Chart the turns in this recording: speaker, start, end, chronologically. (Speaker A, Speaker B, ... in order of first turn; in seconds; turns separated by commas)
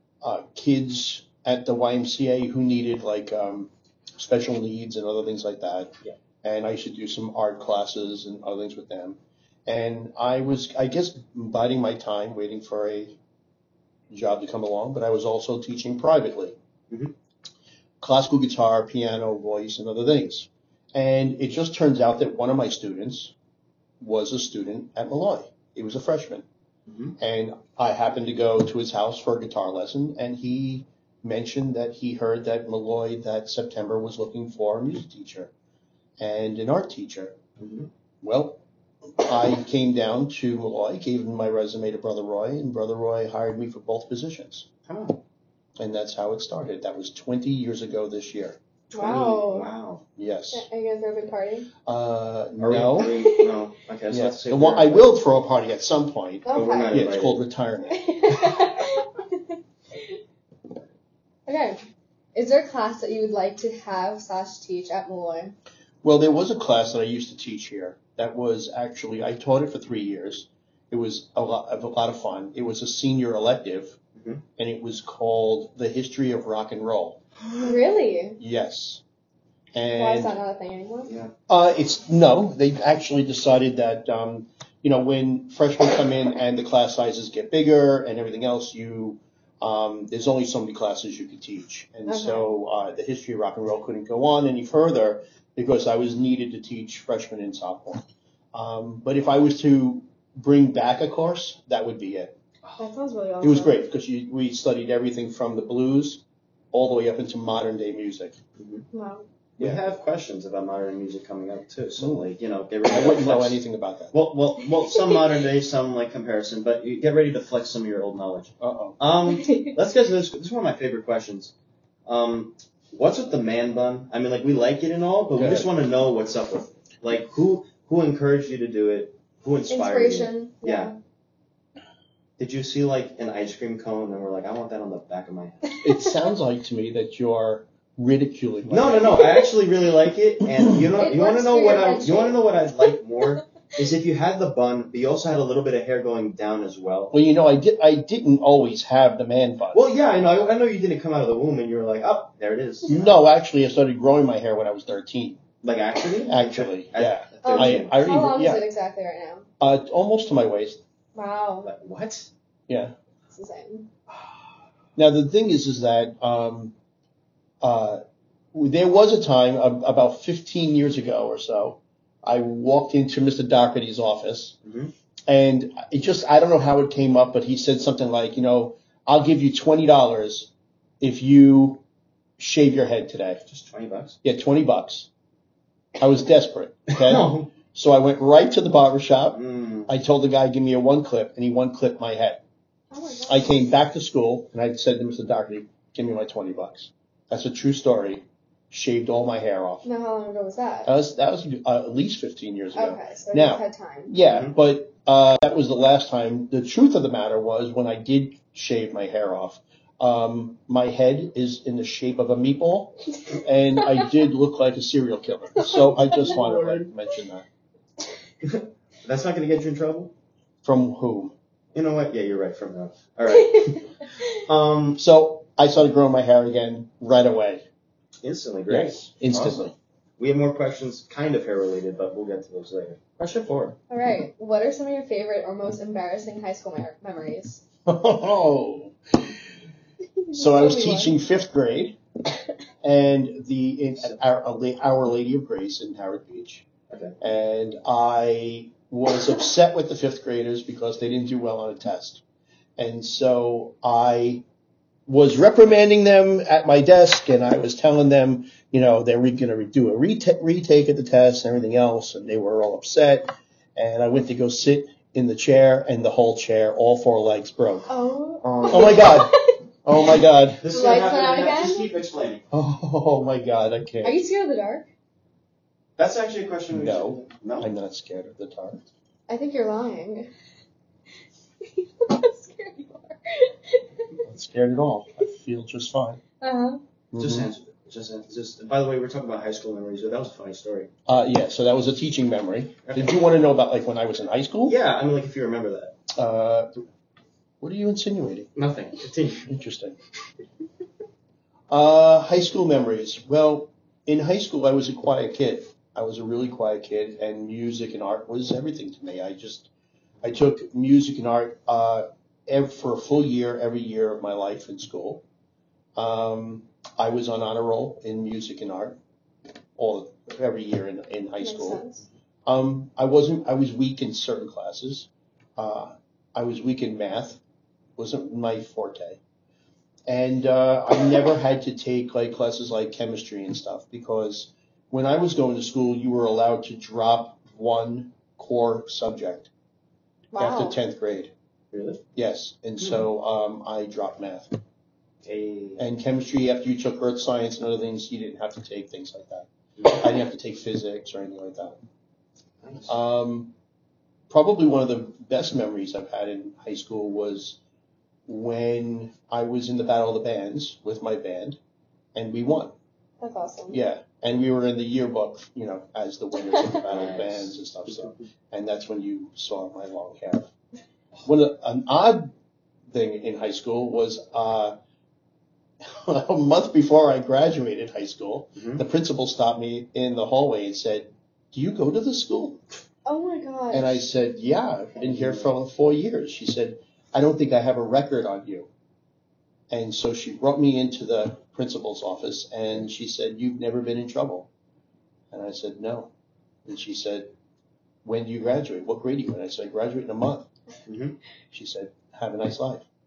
Speaker A: 0.2-13.2, Speaker A: 14.1-16.6, Speaker A: 18.0-23.3, Speaker A: 24.0-26.4, Speaker B: 26.9-27.1, Speaker A: 27.2-35.5, Speaker A: 36.2-37.4, Speaker B: 37.6-37.9, Speaker A: 38.2-38.6, Speaker A: 39.2-44.7, Speaker B: 44.9-45.2, Speaker A: 45.8-48.6, Speaker C: 48.9-49.7, Speaker B: 48.9-50.0, Speaker A: 50.2-50.6, Speaker C: 50.5-51.7, Speaker A: 51.8-53.1, Speaker B: 52.6-55.1, Speaker C: 53.0-53.5, Speaker A: 54.1-58.6, Speaker C: 56.4-57.0, Speaker B: 56.5-57.4, Speaker C: 57.9-59.6, Speaker C: 61.5-61.8, Speaker C: 62.3-65.5, Speaker A: 66.0-74.0, Speaker B: 74.2-74.4, Speaker A: 74.6-77.2, Speaker C: 77.6-78.4, Speaker A: 78.4-79.0, Speaker A: 79.7-80.3, Speaker C: 79.9-81.1, Speaker B: 81.1-81.3, Speaker A: 81.5-98.0, Speaker C: 92.1-92.4, Speaker A: 98.5-102.3, Speaker C: 102.8-103.8, Speaker A: 103.4-108.4, Speaker B: 108.6-108.8, Speaker C: 108.9-109.2, Speaker B: 109.6-113.6, Speaker A: 112.0-112.3, Speaker A: 112.8-114.1, Speaker B: 114.1-121.5, Speaker C: 114.9-115.2, Speaker A: 118.6-119.0, Speaker C: 119.3-119.7, Speaker B: 122.0-130.9, Speaker A: 125.4-125.7, Speaker C: 129.7-130.9, Speaker B: 132.4-135.6, Speaker A: 135.8-139.2, Speaker B: 138.7-147.1, Speaker C: 141.0-142.6, Speaker A: 147.1-149.8, Speaker B: 149.7-153.1, Speaker A: 152.9-155.4, Speaker B: 155.6-157.9, Speaker A: 156.3-158.6, Speaker C: 157.4-159.5, Speaker A: 159.6-160.8, Speaker C: 161.1-161.7, Speaker B: 161.6-162.3, Speaker A: 162.7-162.9, Speaker C: 163.3-163.9, Speaker A: 164.9-166.7, Speaker A: 167.6-168.0, Speaker A: 168.5-174.6, Speaker B: 174.6-174.9, Speaker A: 175.3-180.5, Speaker A: 181.0-181.8, Speaker A: 182.4-183.4, Speaker B: 183.5-184.2, Speaker A: 184.2-185.1, Speaker A: 186.0-192.4, Speaker B: 186.9-187.5, Speaker B: 189.3-189.9, Speaker C: 192.9-193.5, Speaker A: 193.3-199.8, Speaker C: 199.8-200.9, Speaker A: 200.8-217.4, Speaker C: 202.7-204.1, Speaker B: 204.3-204.5, Speaker C: 216.2-216.7, Speaker B: 218.4-220.1, Speaker A: 220.6-221.3, Speaker B: 221.7-225.0, Speaker C: 223.4-223.8, Speaker A: 225.0-227.6, Speaker B: 228.2-229.6, Speaker A: 228.7-229.7, Speaker B: 230.2-233.8, Speaker C: 233.9-237.6, Speaker A: 237.8-239.4, Speaker C: 240.2-241.2, Speaker A: 240.3-242.0, Speaker A: 242.8-246.7, Speaker B: 246.9-247.2, Speaker A: 247.2-252.2, Speaker A: 252.8-254.4, Speaker A: 255.1-267.9, Speaker C: 267.9-269.6, Speaker B: 268.4-269.1, Speaker A: 268.7-270.6, Speaker B: 270.6-272.4, Speaker C: 270.7-271.9, Speaker A: 272.5-274.2, Speaker C: 274.0-274.9, Speaker B: 276.0-277.7, Speaker A: 276.7-278.8, Speaker C: 279.3-280.3, Speaker C: 281.6-283.9, Speaker A: 284.2-286.2, Speaker C: 286.4-286.8, Speaker A: 287.1-287.5, Speaker B: 287.2-290.9, Speaker A: 291.1-294.8, Speaker B: 292.9-293.1, Speaker B: 294.7-296.0, Speaker A: 296.1-296.7, Speaker A: 297.6-298.5, Speaker B: 298.5-299.5, Speaker A: 299.4-300.0, Speaker A: 301.7-309.7, Speaker A: 310.2-315.2, Speaker A: 315.9-319.0, Speaker A: 319.8-321.8, Speaker C: 321.4-322.1, Speaker A: 322.4-327.4, Speaker A: 328.0-329.2, Speaker A: 330.1-339.5, Speaker C: 340.3-340.8, Speaker A: 340.4-341.3, Speaker B: 341.7-342.0, Speaker A: 342.1-344.6, Speaker B: 345.2-345.8, Speaker A: 345.8-351.8, Speaker B: 349.8-350.0, Speaker B: 352.6-352.9, Speaker A: 352.9-353.5, Speaker A: 354.3-357.6, Speaker A: 358.3-361.6, Speaker A: 362.1-362.7, Speaker C: 363.2-363.8, Speaker A: 363.7-370.5, Speaker B: 366.9-367.5, Speaker A: 371.2-372.3, Speaker A: 372.9-374.8, Speaker A: 375.8-382.6, Speaker B: 378.6-378.8, Speaker C: 383.0-384.0, Speaker A: 383.7-388.7, Speaker A: 389.7-394.5, Speaker A: 395.3-396.1, Speaker A: 396.6-397.3, Speaker A: 398.0-400.5, Speaker B: 400.9-401.2, Speaker A: 401.5-402.8